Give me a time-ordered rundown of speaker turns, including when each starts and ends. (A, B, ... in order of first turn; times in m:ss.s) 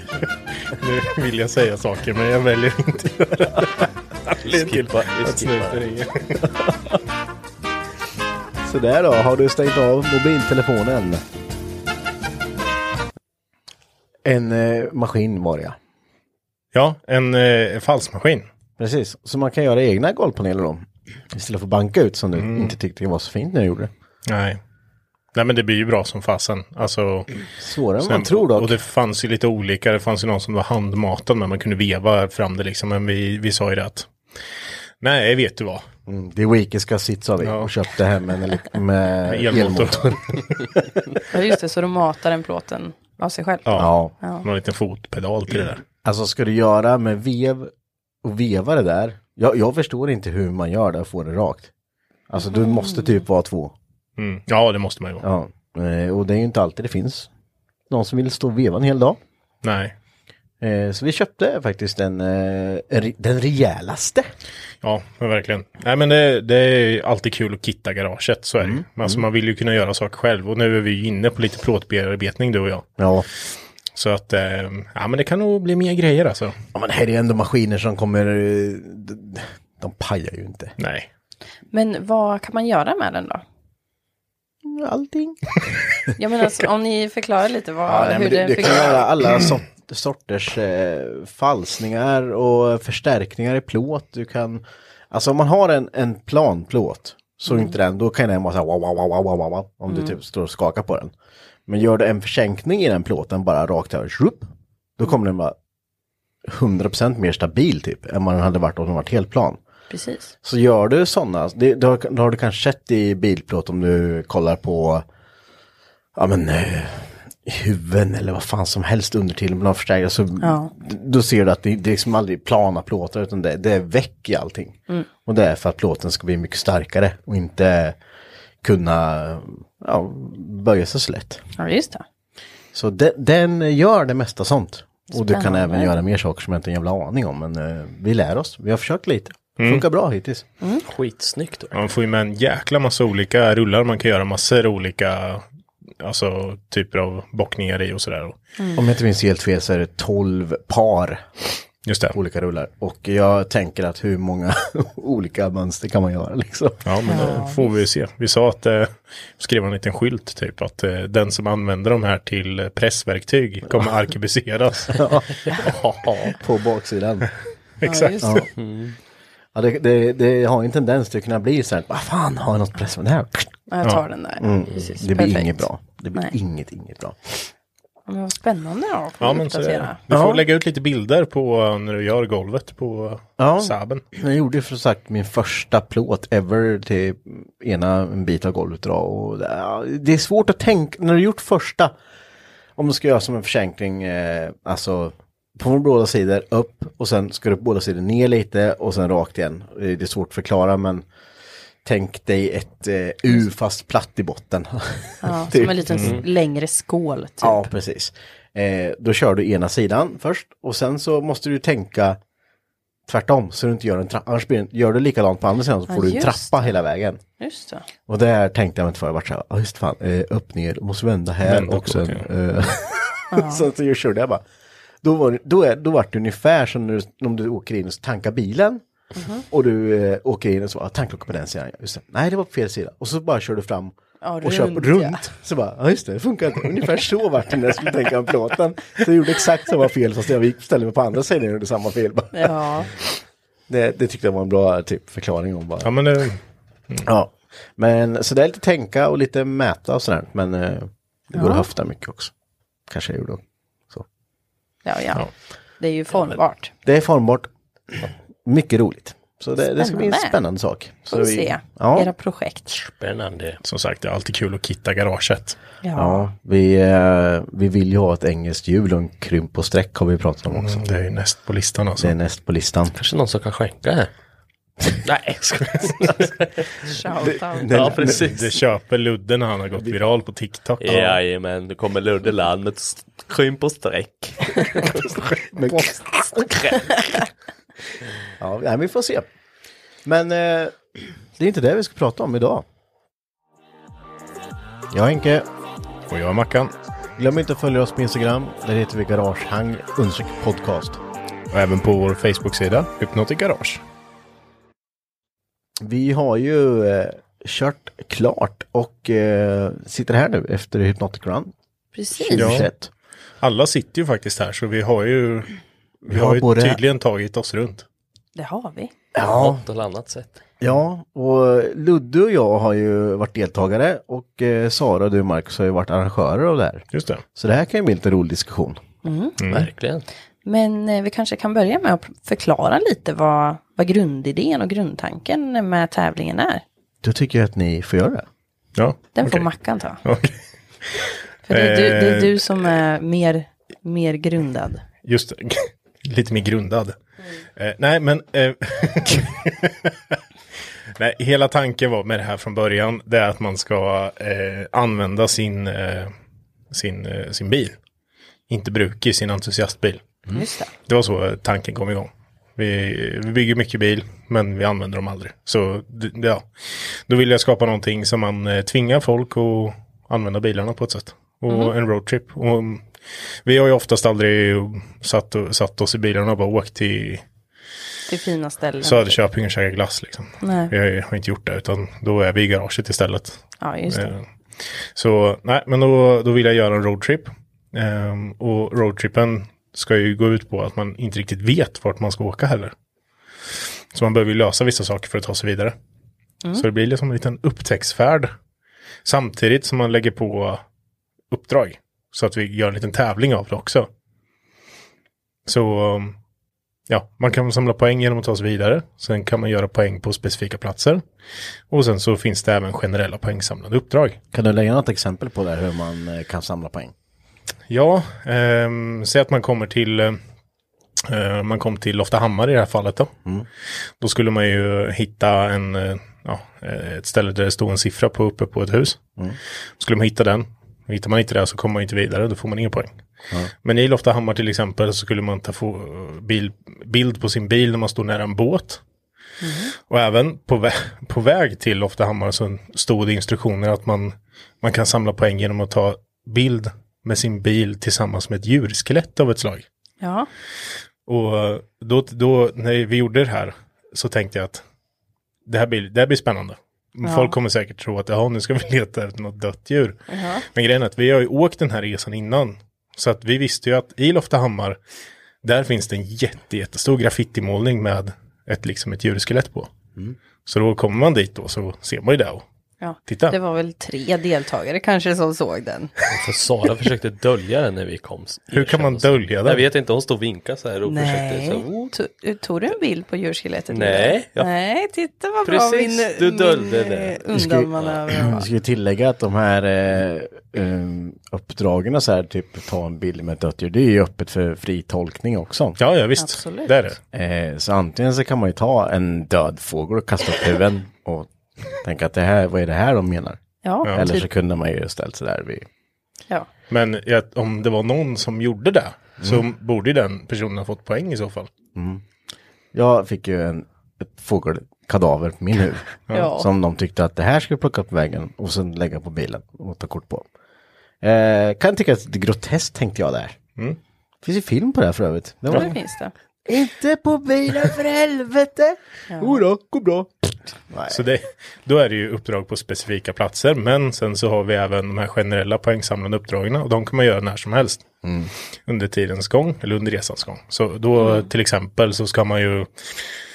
0:00.7-0:06.4 A
0:04.4-0:05.8 B
0:06.4-0:06.7 C
0:08.6-0:11.2 C
0:14.2-0:15.8 C
0:16.7-0:18.5 A
0:18.8-0:23.9 C
0:22.4-0:22.8 A
0:24.3-0:24.6 A
0:25.3-0:27.5 A
0:27.6-0:28.7 C
0:28.0-0:34.1 A
0:35.0-0:35.8 A
0:36.1-0:40.9 C
0:37.4-0:37.7 A
0:39.3-0:40.4 A
0:41.3-0:43.7 D
0:43.6-0:45.8 A
0:43.8-0:44.1 C
0:46.0-0:47.7 C
0:48.2-0:51.7 C
0:52.3-0:53.7 C
0:52.4-0:53.1 D
0:54.2-0:55.2 A
0:55.2-0:57.3 C
0:57.9-0:59.2 C
0:59.6-0:59.9 A
1:00.6-1:04.3 C
1:04.8-1:12.9 A
1:08.6-1:09.2 C
1:13.0-1:13.3 C
1:13.9-1:16.5 A
1:16.7-1:20.7 C
1:20.8-1:21.1 A
1:21.7-1:23.4 D
1:24.6-1:25.5 C
1:26.2-1:29.0 D
1:27.9-1:41.1 C
1:37.5-1:37.8 D
1:39.9-1:40.1 D
1:41.7-1:45.5 C
1:46.4-1:49.6 C
1:49.9-1:50.3 D
1:50.4-1:55.0 C
1:56.2-2:08.0 C
2:00.4-2:00.7 D
2:08.6-2:11.4 C
2:11.6-2:12.0 D
2:12.7-2:20.4 C
2:15.1-2:15.9 D
2:19.6-2:19.8 A
2:20.9-2:21.7 B
2:21.7-2:25.4 A
2:26.0-2:28.4 A
2:28.8-2:31.3 C
2:31.8-2:32.2 A
2:32.1-2:37.2 C
2:36.8-2:45.7 A
2:37.1-2:37.7 D
2:44.9-2:45.3 C
2:46.0-2:46.3 B
2:46.3-2:47.3 C
2:47.8-2:48.4 A
2:47.8-2:48.4 D
2:48.2-2:48.5 C
2:48.6-2:49.0 B
2:49.5-2:53.6 C
2:53.7-2:56.3 D
2:54.4-2:57.5 C
2:58.1-3:00.0 D
2:59.2-3:04.0 A
3:00.1-3:00.4 C
3:03.4-3:11.9 C
3:12.8-3:21.0 C
3:21.8-3:26.2 C
3:25.2-3:27.7 D
3:25.9-3:26.2 A
3:27.4-3:32.2 C
3:33.1-3:37.2 C
3:35.9-3:36.7 D
3:37.4-3:37.8 D
3:38.1-3:44.4 C
3:41.4-3:42.2 A
3:43.3-3:43.6 D
3:45.0-3:48.8 C
3:49.1-3:49.4 D
3:49.5-4:03.0 C
3:54.2-3:55.2 D
4:02.3-4:02.9 D
4:03.7-4:05.9 C
4:05.8-4:07.1 A
4:07.0-4:12.3 C
4:11.3-4:11.7 D
4:12.9-4:14.0 C
4:14.8-4:16.7 D
4:16.8-4:17.5 C
4:18.4-4:22.1 C
4:19.7-4:20.4 D
4:21.1-4:22.8 D
4:22.8-4:23.6 B
4:23.6-4:25.6 A
4:25.8-4:26.3 D
4:25.9-4:30.8 C
4:30.5-4:32.1 A
4:32.0-4:32.9 C
4:32.9-4:34.1 B
4:35.0-4:36.9 B
4:36.9-4:37.7 D
4:37.2-4:38.4 C
4:37.7-4:38.5 B
4:38.2-4:41.1 A
4:40.8-4:45.1 B
4:45.5-4:46.8 C
4:48.4-4:49.3 C
4:50.0-4:52.6 C
4:54.9-4:55.5 C
4:56.1-4:56.7 A
4:57.2-5:01.0 C
5:01.5-5:03.8 A
5:05.8-5:11.5 C
5:11.9-5:12.6 D
5:12.1-5:12.9 C
5:12.3-5:12.7 A
5:13.4-5:17.8 A
5:16.1-5:16.8 C
5:18.4-5:18.9 D
5:19.1-5:19.6 C
5:19.2-5:20.4 B
5:20.6-5:28.8 C
5:26.9-5:27.2 A
5:29.0-5:29.4 D
5:29.4-5:29.7 A
5:29.5-5:30.1 B
5:30.4-5:36.6 D
5:37.0-5:38.3 C
5:38.8-5:40.4 A
5:39.1-5:40.0 D
5:41.0-5:42.7 A
5:41.5-5:44.8 D
5:45.0-5:46.9 A
5:47.6-5:50.2 A
5:51.0-5:56.1 A
5:56.7-5:57.7 A
5:58.5-6:00.0 A
6:00.3-6:00.7 D
6:00.9-6:17.2 A
6:18.1-6:19.2 D
6:18.8-6:32.7 A
6:20.4-6:20.7 D
6:23.6-6:24.1 D
6:33.9-6:35.7 A
6:36.5-6:38.3 A
6:39.0-6:40.6 A
6:41.3-6:43.9 A
6:45.4-6:46.2 A
6:46.9-6:51.0 A
6:51.7-6:54.2 A
6:54.3-6:56.9 C
6:57.7-7:00.2 A
7:01.0-7:03.1 A
7:04.0-7:09.1 A
7:09.8-7:13.0 A
7:13.6-7:18.8 A
7:19.4-7:19.7 D
7:19.9-7:29.6 A
7:30.0-7:30.3 D
7:31.0-7:34.6 A
7:35.4-7:44.8 A
7:37.0-7:37.4 D
7:40.1-7:40.4 D
7:45.4-7:49.7 A
7:50.4-7:52.4 A
7:52.8-7:55.9 D
7:53.1-7:53.4 A
7:56.1-8:01.9 B
7:58.5-7:59.6 A
8:00.9-8:08.4 D
8:03.7-8:04.5 B
8:05.4-8:07.2 B
8:07.3-8:15.8 C
8:15.8-8:17.0 A
8:16.2-8:16.7 D
8:17.1-8:23.4 C
8:23.6-8:24.2 D
8:23.8-8:24.1 A
8:23.9-8:25.6 C
8:26.7-8:31.5 A
8:31.7-8:32.0 C
8:32.7-8:40.2 C
8:36.1-8:36.5 D
8:41.0-8:43.4 C
8:44.2-8:45.7 C
8:45.5-8:46.1 D
8:46.5-8:50.1 C
8:49.1-8:49.4 D
8:50.7-8:51.1 C
8:50.9-8:57.9 A
8:58.0-8:58.3 C
8:58.6-9:03.0 A
9:01.0-9:01.3 D